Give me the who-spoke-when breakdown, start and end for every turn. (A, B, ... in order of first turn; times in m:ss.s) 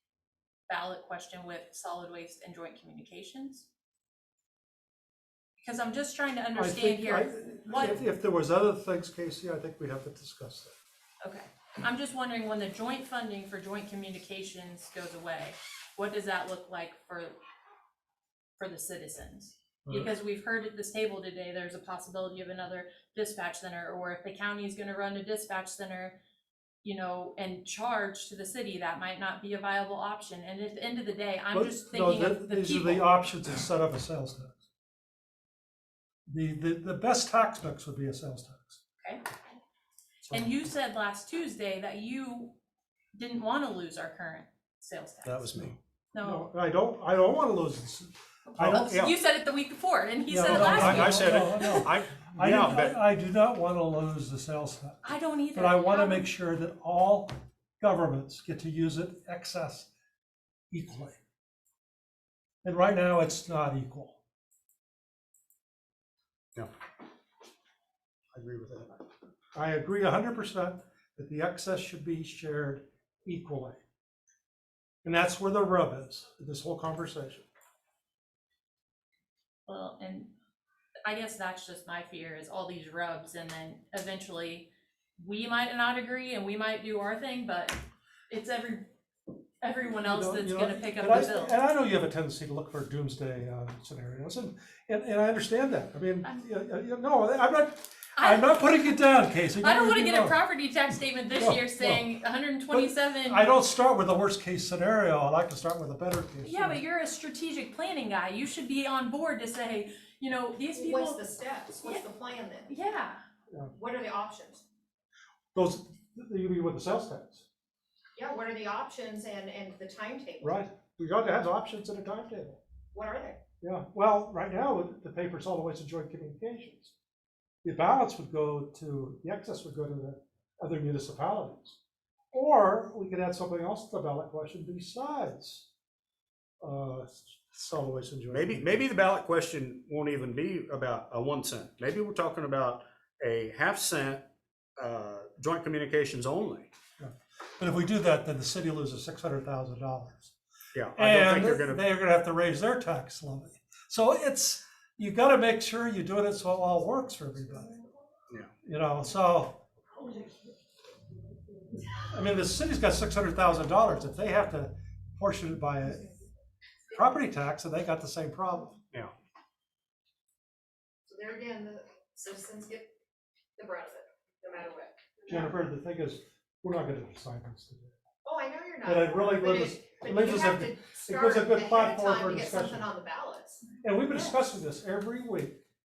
0:00.7-0:03.7 A
0:05.6-0:08.0 A
0:06.6-0:10.8 B
0:11.2-0:17.4 A
0:18.6-0:26.2 A
0:26.8-0:33.1 A
0:31.5-0:34.6 B
0:36.3-0:38.8 B
0:40.3-0:40.5 B
0:40.3-0:42.5 A
0:43.2-0:46.5 A
0:45.2-0:45.8 C
0:46.2-0:49.0 B
0:48.6-0:51.5 A
0:48.6-0:49.2 C
0:50.3-0:55.0 B
0:50.4-0:53.0 C
0:55.0-0:56.3 A
0:55.5-0:59.9 B
1:00.7-1:01.2 B
1:02.6-1:04.2 B
1:08.3-1:09.0 C
1:09.5-1:13.8 B
1:15.0-1:17.5 B
1:19.7-1:20.3 A
1:21.0-1:28.9 A
1:29.6-1:31.6 A
1:30.0-1:40.4 B
1:38.2-1:39.0 A
1:39.6-1:43.5 A
1:41.4-1:42.1 B
1:42.7-1:46.8 B
1:46.4-1:51.2 A
1:50.8-1:52.7 D
1:52.7-1:53.2 A
1:53.7-1:54.6 D
1:55.5-1:57.4 B
1:58.2-2:00.6 D
2:00.4-2:02.6 B
2:02.9-2:03.4 D
2:03.6-2:06.9 B
2:07.6-2:11.8 B
2:12.3-2:15.7 B
2:16.6-2:18.8 B
2:18.3-2:26.7 C
2:27.0-2:30.3 B
2:30.7-2:31.8 C
2:31.0-2:37.8 B
2:38.6-2:39.6 B
2:42.1-2:46.2 B
2:46.9-2:48.8 B
2:51.1-2:52.9 D
2:53.6-2:55.5 D
2:55.3-2:57.9 B
2:58.2-3:04.3 D
2:58.8-3:02.9 B
3:03.8-3:05.6 B